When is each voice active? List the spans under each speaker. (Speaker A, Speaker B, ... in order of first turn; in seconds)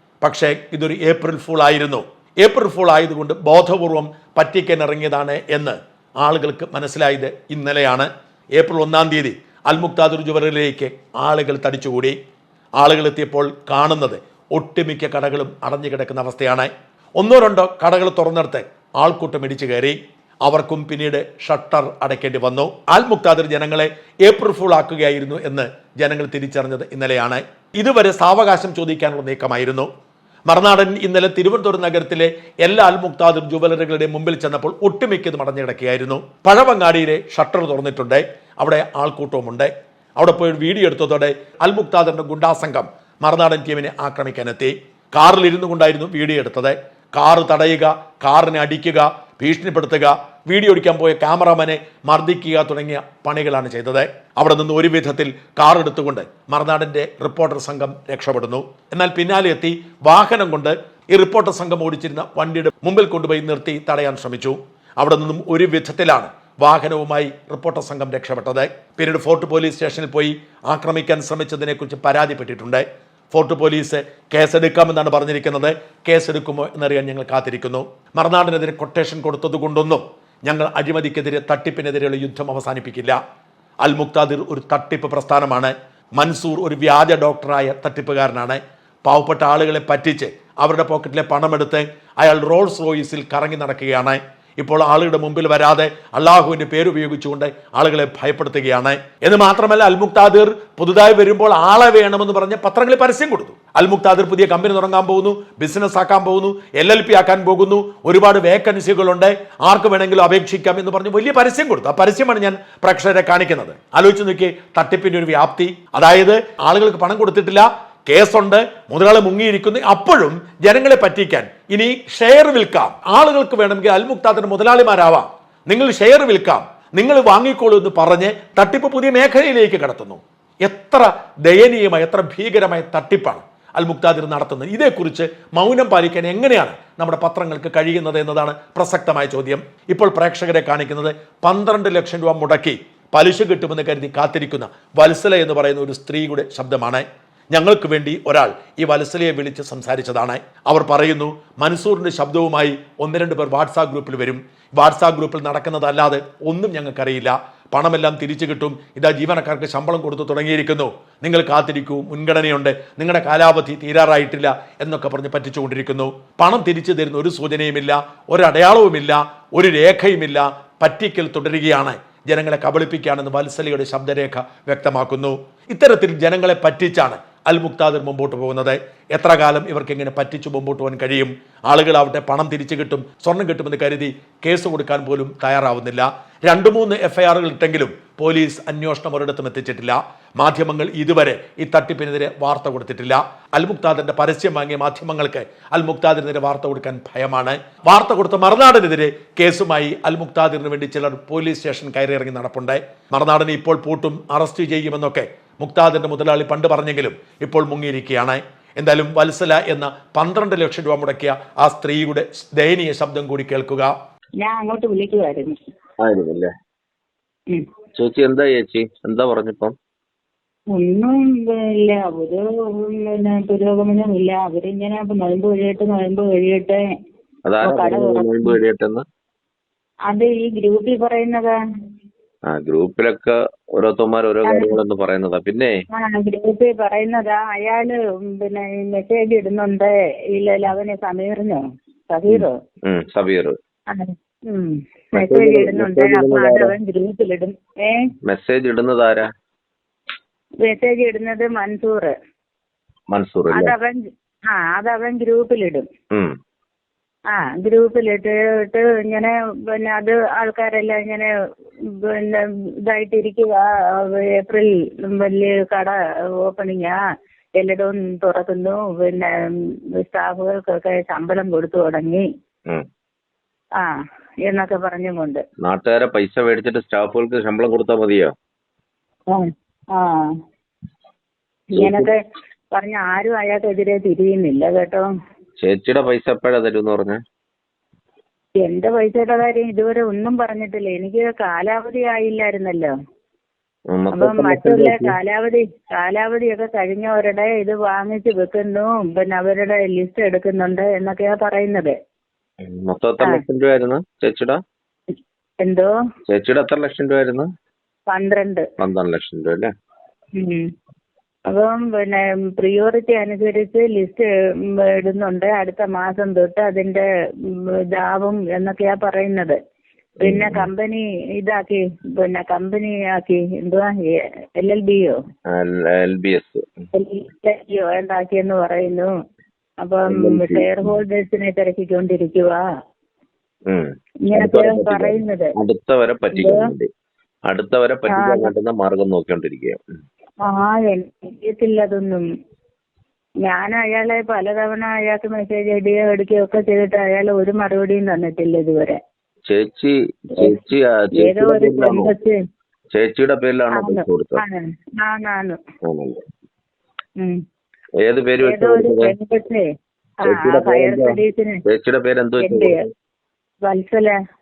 Speaker A: 0.2-12.2, 12.8-29.9, 30.5-83.2, 83.8-213.9
Speaker B: 214.4-215.6, 220.7-226.8, 227.6-228.6, 230.1-231.5, 234.5-234.7, 235.9-241.6, 242.1-242.6, 243.9-248.1, 250.6-252.1, 253.5-254.0, 254.5-255.9, 257.3-261.3, 261.9-267.0, 267.6-269.3, 270.0-272.2, 274.5-275.4, 279.3-280.3, 281.7-282.2, 282.7-285.1, 288.6-292.9, 294.1-301.9, 305.6-305.9, 308.1-308.6, 310.4-310.7, 311.5-317.1, 317.9-319.6, 320.2-325.2, 326.9-329.1, 329.8-332.6, 334.3-335.5, 336.4-336.6, 338.1-338.5, 340.4-342.2, 343.4-349.0, 351.2-352.4, 353.7-355.6, 358.4-359.6, 360.2-361.6, 362.4-362.8, 363.6-364.1
Speaker C: 216.0-216.5, 218.0-219.7, 227.4-229.0, 232.5-235.7, 242.3-243.5, 245.1-246.7, 248.2-249.3, 253.1-253.7, 275.6-278.3, 281.7-282.1, 285.6-287.2, 293.9-295.1, 302.6-304.6, 306.3-307.5, 308.8-309.7, 320.2-320.7, 325.5-326.6, 330.1-330.9, 333.7-336.9, 337.5-339.8, 349.5-352.1, 352.9-354.4, 355.9-356.2, 358.0-359.1, 360.2-362.8